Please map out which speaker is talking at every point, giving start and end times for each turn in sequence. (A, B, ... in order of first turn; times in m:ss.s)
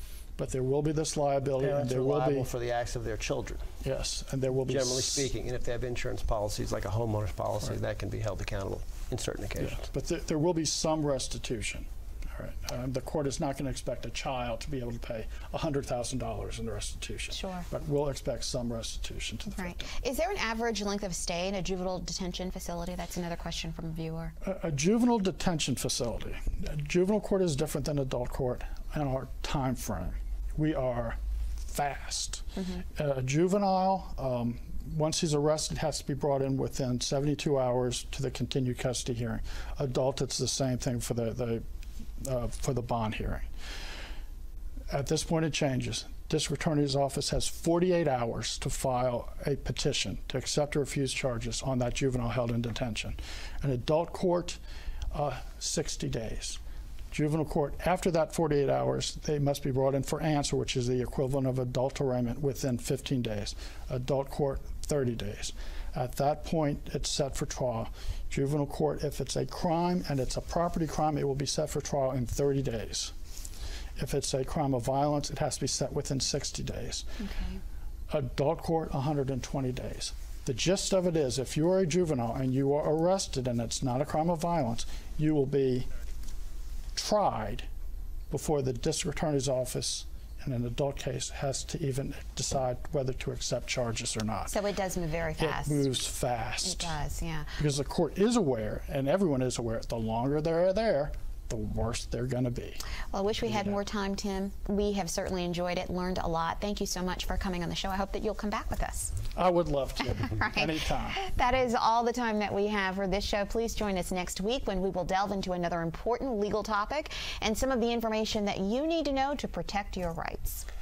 0:00.4-0:02.4 A
0:01.6-0:03.7 B
0:03.8-0:05.3 A
0:04.6-0:09.9 B
0:09.6-0:19.9 A
0:17.3-0:17.6 C
0:19.6-0:24.3 C
0:24.4-0:41.6 A
0:42.2-0:43.5 A
0:44.9-0:54.6 A
0:55.1-0:56.6 A
0:57.1-1:13.1 A
1:14.0-1:17.1 A
1:17.2-1:17.6 C
1:18.1-1:25.9 A
1:26.9-1:27.7 A
1:28.3-1:34.5 A
1:34.5-1:35.8 C
1:35.4-1:37.0 A
1:36.6-1:37.6 C
1:37.6-1:42.8 A
1:43.1-1:49.1 C
1:49.4-1:51.2 A
1:50.0-2:00.6 C